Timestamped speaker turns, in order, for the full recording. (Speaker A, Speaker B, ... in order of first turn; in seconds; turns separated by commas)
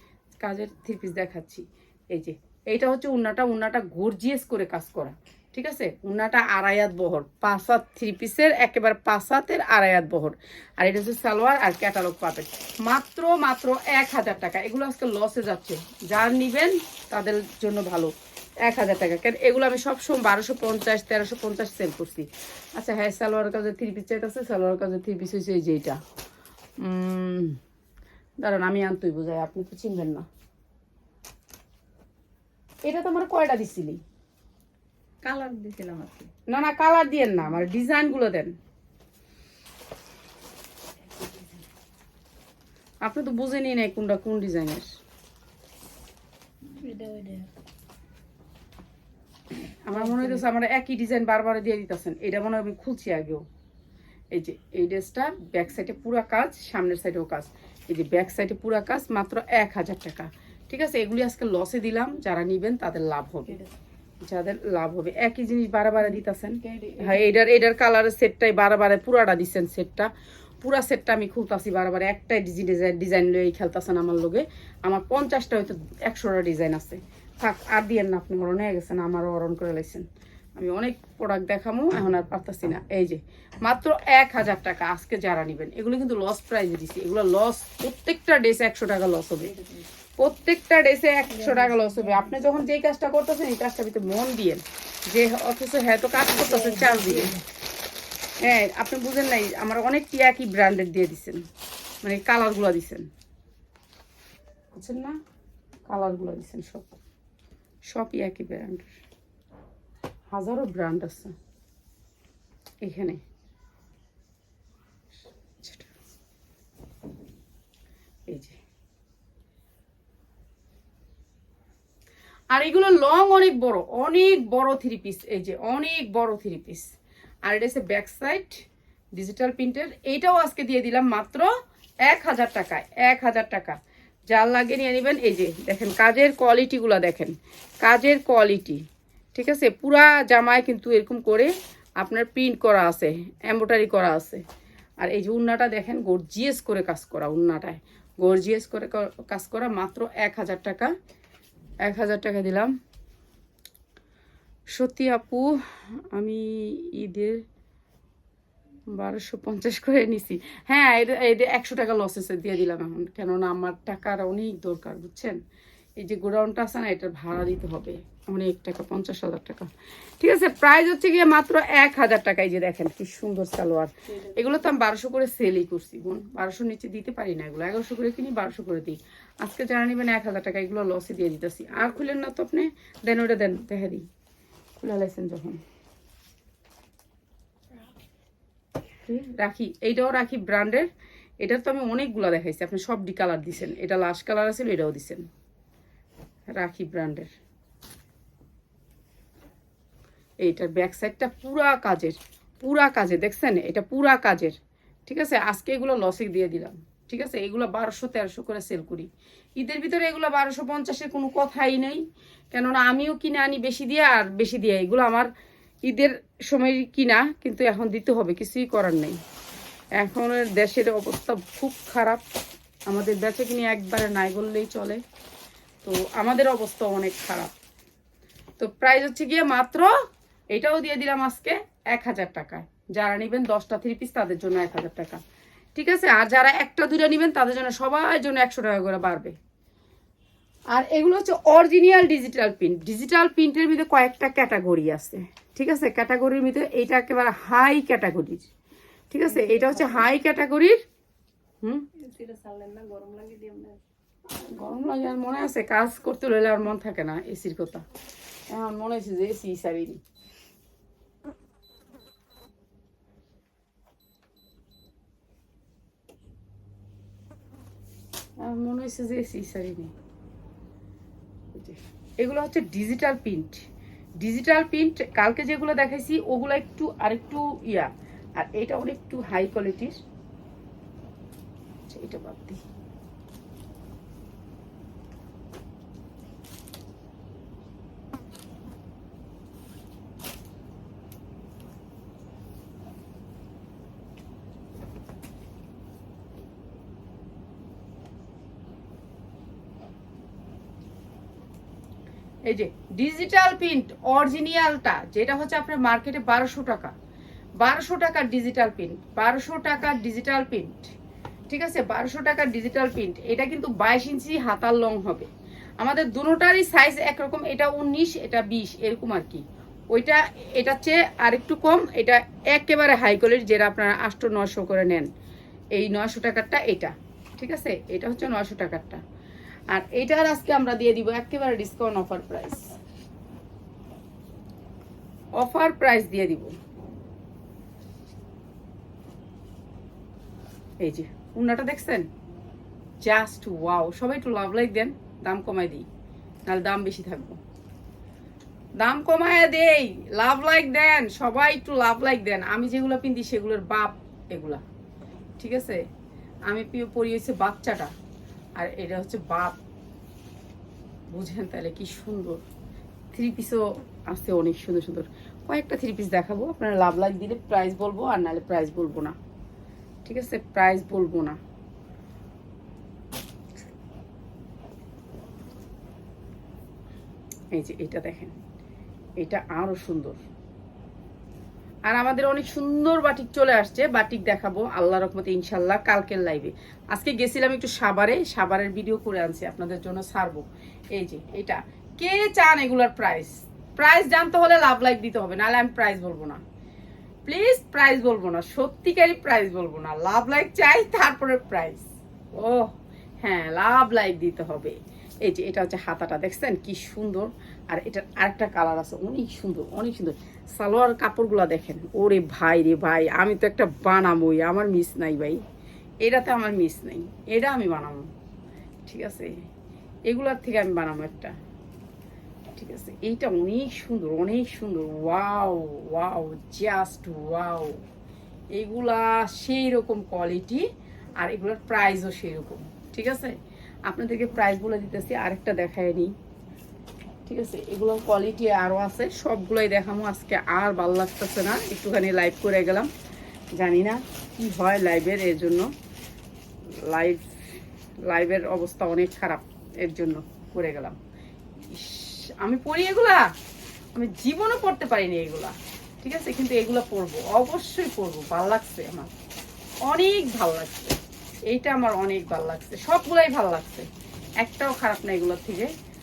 Speaker A: 0.4-18.1, Speaker A: 18.6-26.0, Speaker A: 26.8-27.6, Speaker A: 28.4-30.2, Speaker A: 32.9-34.0, Speaker B: 35.2-36.3, Speaker A: 36.5-38.5, Speaker A: 43.0-44.9, Speaker B: 46.8-47.5, Speaker A: 49.6-53.4, Speaker B: 49.9-50.4, Speaker A: 54.3-63.6, Speaker B: 63.5-63.7, Speaker A: 64.2-70.1, Speaker B: 66.6-67.3, Speaker A: 70.6-80.0, Speaker A: 80.6-89.5, Speaker B: 89.5-89.8, Speaker A: 90.2-97.3, Speaker B: 91.3-92.3, Speaker B: 96.3-97.4, Speaker A: 98.4-101.4, Speaker A: 102.0-103.1, Speaker A: 104.8-105.2, Speaker A: 105.9-107.0, Speaker A: 107.9-109.0, Speaker A: 110.3-111.3, Speaker A: 112.8-113.2, Speaker A: 115.6-115.9, Speaker A: 118.3-118.6, Speaker A: 122.5-126.9, Speaker A: 127.5-128.6, Speaker A: 129.2-131.5, Speaker A: 132.1-133.8, Speaker A: 134.3-138.8, Speaker A: 139.3-144.4, Speaker A: 145.0-150.9, Speaker A: 151.8-152.7, Speaker A: 154.7-157.4, Speaker A: 158.9-165.4, Speaker A: 166.0-184.0, Speaker B: 174.1-174.5, Speaker A: 184.8-185.6, Speaker A: 189.0-190.9, Speaker A: 191.4-195.2, Speaker A: 196.5-197.3, Speaker A: 200.4-204.6, Speaker A: 205.1-215.3, Speaker A: 215.8-219.2, Speaker A: 220.0-222.2, Speaker A: 222.9-225.0, Speaker A: 225.8-227.5, Speaker A: 228.6-229.9, Speaker A: 230.5-235.2, Speaker A: 235.7-239.3, Speaker A: 240.7-248.4, Speaker A: 249.1-250.8, Speaker B: 249.3-250.1, Speaker B: 252.0-253.8, Speaker A: 254.3-257.8, Speaker A: 258.5-260.0, Speaker A: 268.4-269.9, Speaker A: 271.5-273.6, Speaker A: 274.2-280.0, Speaker A: 281.9-282.6, Speaker A: 302.5-306.9, Speaker A: 307.6-310.9, Speaker A: 311.5-325.1, Speaker A: 325.7-329.0, Speaker A: 329.7-332.7, Speaker A: 335.4-336.5, Speaker A: 340.8-342.1, Speaker A: 343.0-345.9, Speaker A: 346.5-347.4, Speaker A: 348.8-354.6, Speaker A: 355.4-355.8, Speaker A: 356.5-357.9, Speaker A: 358.6-359.6, Speaker A: 361.1-362.4, Speaker A: 363.1-369.1, Speaker A: 370.0-371.4, Speaker A: 377.5-378.3, Speaker A: 379.2-380.2, Speaker A: 381.9-396.4, Speaker A: 397.3-402.7, Speaker A: 403.2-415.4, Speaker A: 416.0-418.0, Speaker A: 418.9-419.3, Speaker A: 420.1-421.3, Speaker A: 422.6-427.8, Speaker A: 428.5-430.7, Speaker A: 431.2-433.3, Speaker A: 433.9-436.1, Speaker A: 437.2-442.9, Speaker A: 443.6-445.7, Speaker A: 446.9-447.6, Speaker A: 448.1-451.0, Speaker A: 451.7-453.3, Speaker A: 453.9-459.1, Speaker A: 459.9-461.0, Speaker A: 461.5-463.9, Speaker A: 464.4-465.7